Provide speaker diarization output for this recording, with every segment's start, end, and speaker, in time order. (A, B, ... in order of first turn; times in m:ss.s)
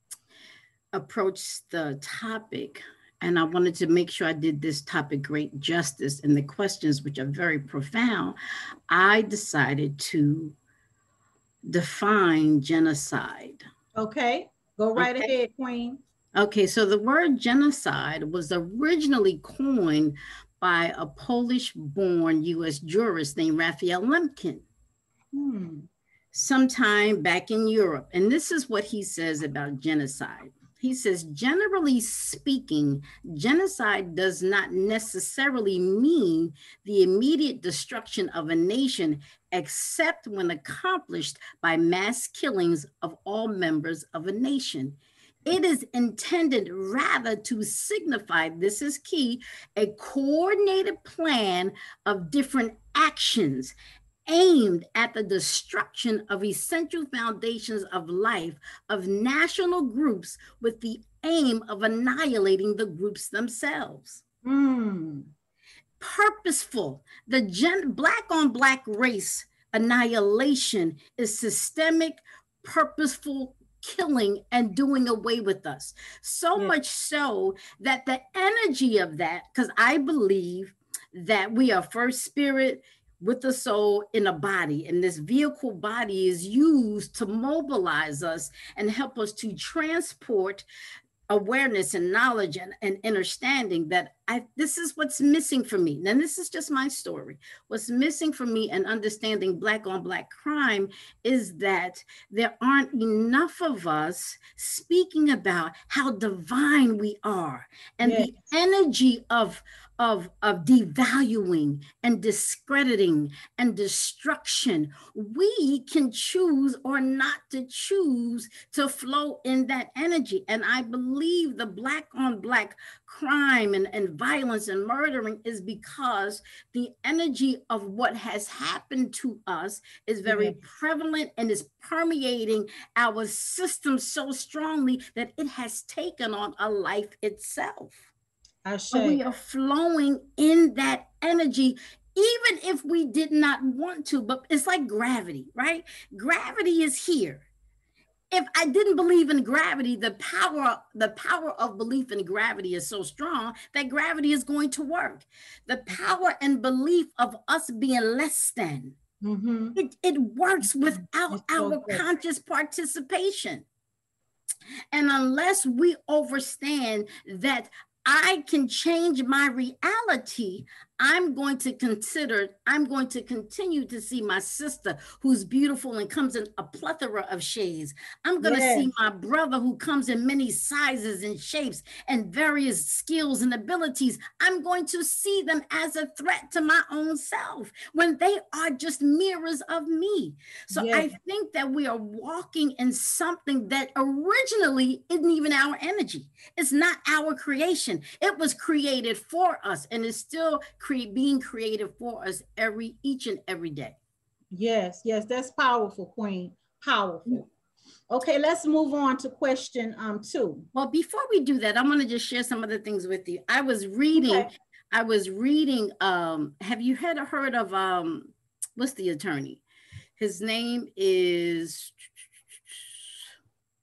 0:00.9-0:08.4 A
0:08.9-0:10.6 A
0:11.7-0:13.6 A
0:14.0-0:16.0 B
0:15.0-0:15.3 A
0:16.4-0:24.6 A
0:25.3-0:25.9 B
0:26.3-0:53.8 A
0:54.3-1:04.2 A
1:04.4-1:05.3 B
1:06.0-1:30.7 A
1:31.3-2:18.1 A
1:48.0-1:48.3 B
2:10.3-2:10.6 B
2:18.6-2:19.2 B
2:18.9-2:27.5 A
2:28.3-2:39.0 A
2:39.2-2:39.8 B
2:39.8-2:43.7 A
2:41.3-2:42.0 B
2:44.9-3:24.0 A
2:58.4-2:58.9 B
3:10.7-3:11.1 B
3:24.5-3:27.5 B
3:28.1-3:30.7 B
3:30.7-3:39.6 A
3:34.2-3:34.5 B
3:40.2-3:43.2 A